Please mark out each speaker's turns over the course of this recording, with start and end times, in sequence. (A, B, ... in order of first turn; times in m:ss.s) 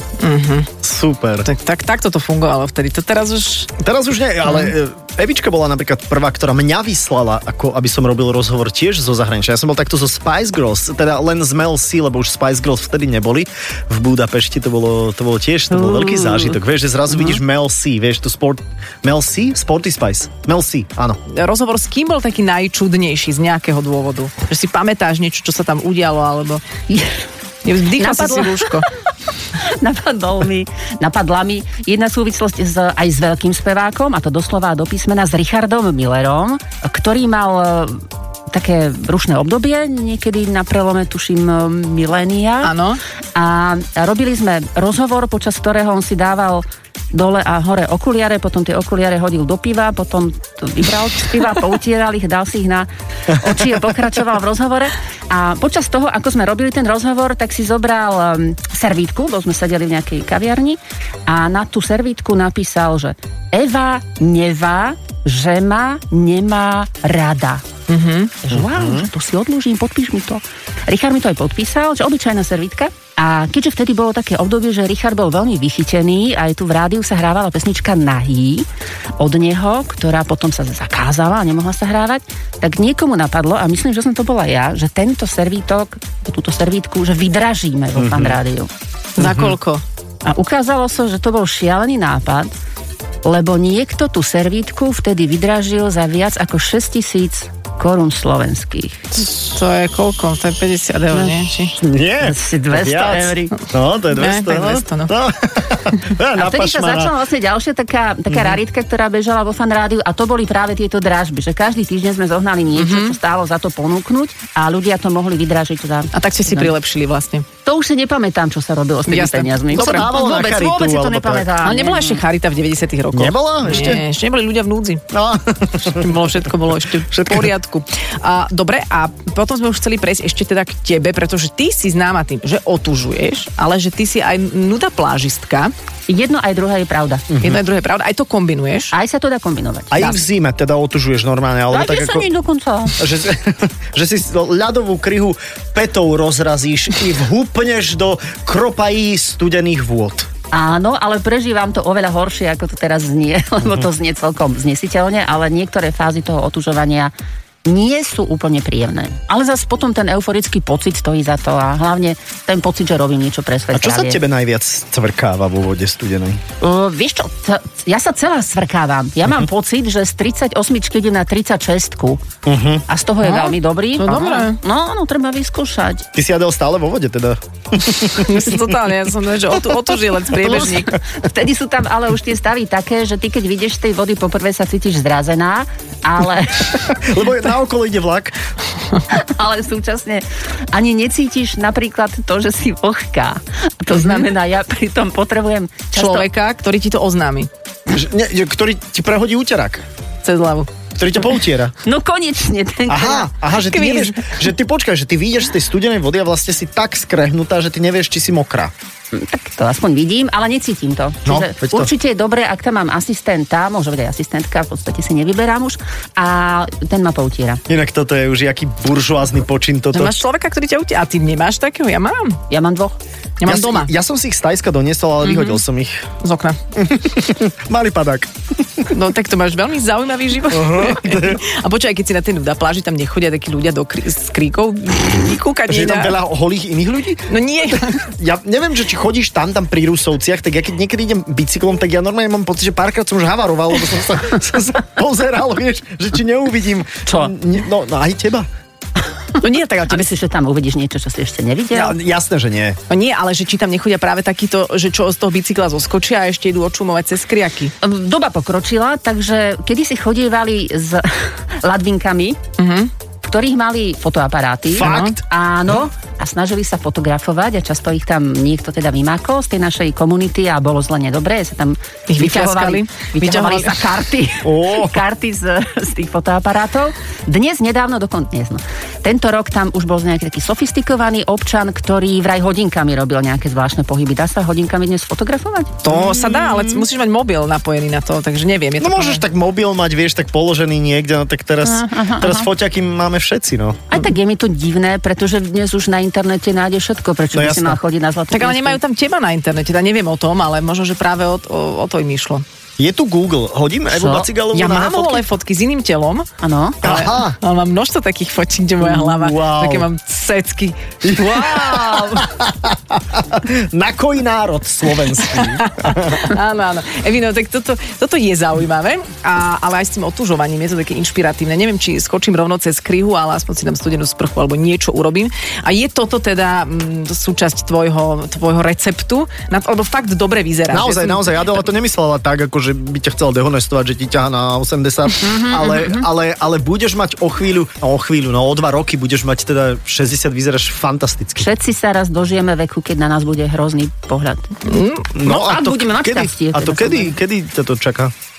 0:00.2-0:00.7 A
0:00.8-0:01.5 B
0:01.4-0:03.7 A
0:03.8-0:21.2 B
0:15.8-0:16.5 C
0:17.1-0:17.4 C
0:21.3-0:26.6 A
0:26.9-0:27.2 C
0:27.6-0:28.9 A
0:28.0-0:28.8 C
0:29.6-0:42.7 C
0:42.6-0:43.0 A
0:43.3-1:07.6 C
1:07.9-1:08.3 A
1:08.4-1:18.7 C
1:08.5-1:09.1 B
1:19.2-1:28.7 C
1:28.0-1:28.4 B
1:29.2-1:29.8 A
1:29.2-1:29.6 B
1:30.2-1:32.5 C
1:33.2-1:39.0 C
1:39.1-1:41.8 A
1:41.8-1:47.1 B
1:42.2-1:43.5 C
1:43.6-1:45.1 A
1:46.3-1:56.7 C
1:52.7-1:53.2 A
1:56.1-1:57.4 A
1:57.6-2:02.2 C
1:59.1-2:00.1 A
1:59.7-2:01.6 B
2:01.6-2:05.0 A
2:03.1-2:04.0 B
2:05.1-2:06.2 B
2:06.0-2:15.7 A
2:07.1-2:07.5 B
2:16.1-2:17.3 C
2:17.3-2:17.6 B
2:17.4-2:18.9 A
2:18.9-2:20.2 C
2:19.9-2:22.3 B
2:21.7-2:23.0 C
2:23.0-2:30.3 B
2:30.5-2:37.1 C
2:37.6-2:44.2 C
2:43.7-2:46.4 B
2:46.6-2:52.2 C
2:52.4-2:52.8 B
2:52.9-2:56.0 C
2:53.2-2:54.6 A
2:56.1-2:58.5 B
2:58.2-3:00.9 A
3:00.4-3:00.9 B
3:01.1-3:06.8 C
3:06.8-3:08.4 B
3:09.1-3:16.3 C
3:15.9-3:17.5 A
3:17.9-3:19.8 B
3:20.2-3:20.7 A
3:21.0-3:21.7 B
3:21.8-3:23.3 C
3:22.9-3:28.7 B
3:23.7-3:24.4 A
3:29.1-3:37.6 C
3:31.2-3:31.9 B
3:37.7-3:40.1 B
3:39.9-3:42.4 A
3:42.5-3:43.0 C
3:43.4-3:43.9 A
3:43.4-3:46.0 B
3:45.2-3:45.6 A
3:46.2-3:46.6 A
3:46.8-3:48.9 B
3:48.9-3:56.2 A
3:50.5-3:51.4 B
3:55.7-4:08.5 B
3:57.3-3:58.0 A
4:07.1-4:07.3 C
4:09.4-4:10.0 A
4:09.8-4:11.9 C
4:11.7-4:12.8 B
4:12.9-4:17.7 A
4:17.8-4:22.4 C
4:22.6-4:22.9 A
4:23.2-4:45.7 C
4:24.7-4:25.2 B
4:24.8-4:25.1 A
4:32.1-4:34.0 A
4:34.4-4:35.0 B
4:45.8-4:49.2 A
4:45.9-4:46.8 B
4:48.8-4:53.9 B
4:51.6-4:52.5 C
4:53.9-4:58.8 C
4:57.3-4:57.8 B
4:58.3-5:02.4 A
5:02.8-5:05.2 B
5:03.9-5:04.2 C
5:04.5-5:06.3 A
5:06.4-5:06.8 C
5:06.8-5:12.2 A
5:06.8-5:07.4 B
5:08.8-5:09.9 B
5:11.0-5:16.3 B
5:15.4-5:31.6 A
5:30.7-5:41.5 B
5:35.2-5:36.0 C
5:41.4-5:44.6 C
5:44.7-5:45.1 A
5:45.1-5:48.1 B
5:45.2-5:47.1 C